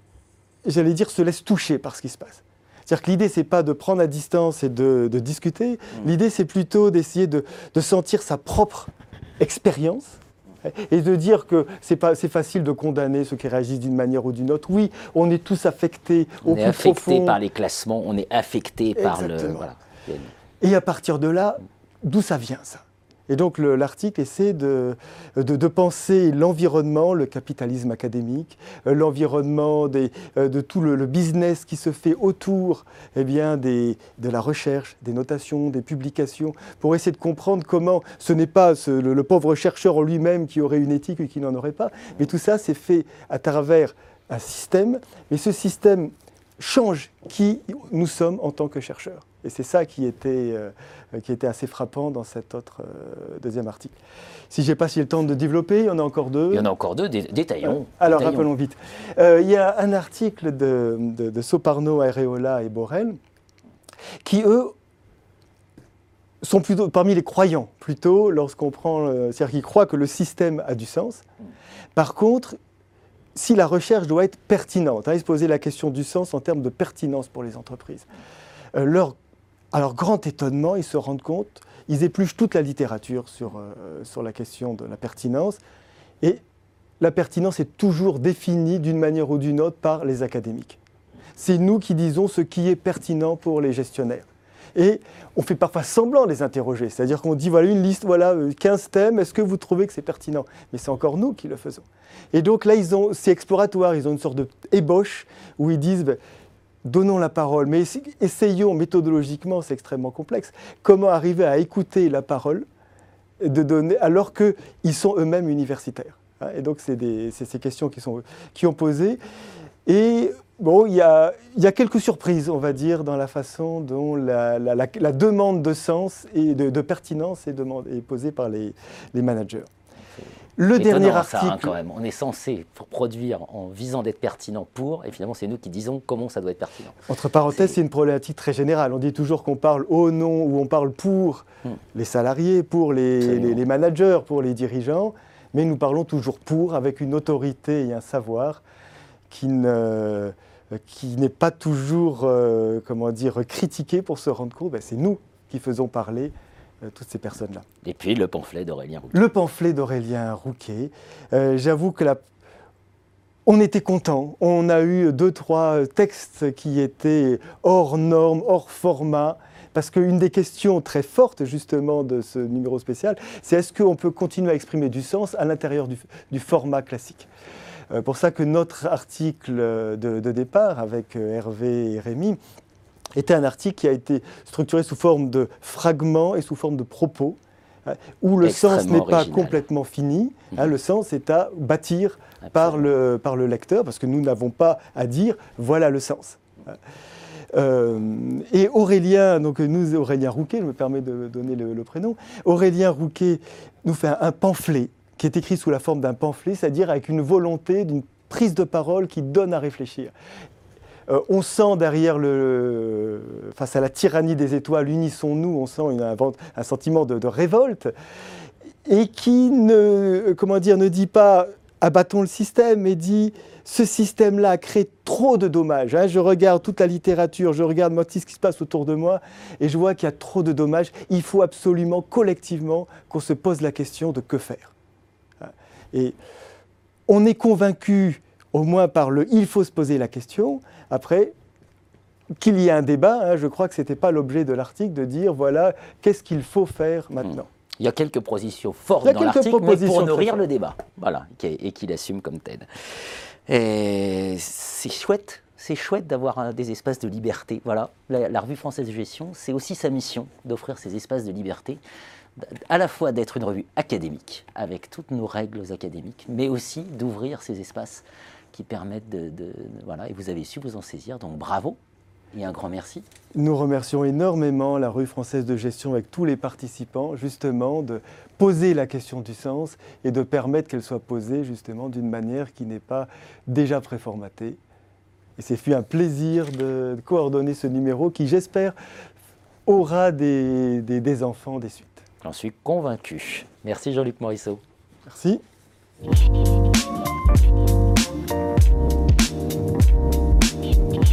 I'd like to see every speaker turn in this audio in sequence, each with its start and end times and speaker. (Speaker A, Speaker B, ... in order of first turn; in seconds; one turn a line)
Speaker A: 0.7-17.4
Speaker B: 16.4-20.3
Speaker A: 19.0-19.7
Speaker A: 20.6-54.0
Speaker A: 54.5-56.7
Speaker B: 56.5-58.5
Speaker A: 57.6-63.2
Speaker A: 64.2-64.7
Speaker A: 66.4-71.2
Speaker A: 72.0-72.6
Speaker A: 73.3-78.1
Speaker A: 78.7-79.2
Speaker A: 79.7-85.6
Speaker A: 87.0-90.8
Speaker A: 91.4-106.2
Speaker A: 106.8-112.7
Speaker A: 113.4-119.2
Speaker A: 119.9-129.7
Speaker A: 130.6-131.8
Speaker B: 130.8-137.8
Speaker A: 137.1-148.6
Speaker B: 143.2-143.6
Speaker A: 149.3-150.3
Speaker A: 150.9-156.3
Speaker A: 156.8-157.7
Speaker B: 157.8-159.2
Speaker A: 159.1-162.2
Speaker A: 163.5-177.3
Speaker A: 177.9-182.4
Speaker A: 183.2-196.8
Speaker B: 188.4-189.6
Speaker A: 197.5-210.1
Speaker A: 211.1-217.9
Speaker A: 218.9-234.7
Speaker A: 235.4-236.2
Speaker A: 237.1-241.3
Speaker A: 242.4-247.5
Speaker B: 247.3-252.7
Speaker A: 249.0-250.4
Speaker B: 253.5-261.8
Speaker B: 262.4-271.8
Speaker B: 272.3-273.1
Speaker A: 273.4-284.6
Speaker A: 285.4-288.8
Speaker A: 289.7-292.1
Speaker B: 292.2-294.6
Speaker A: 295.1-295.4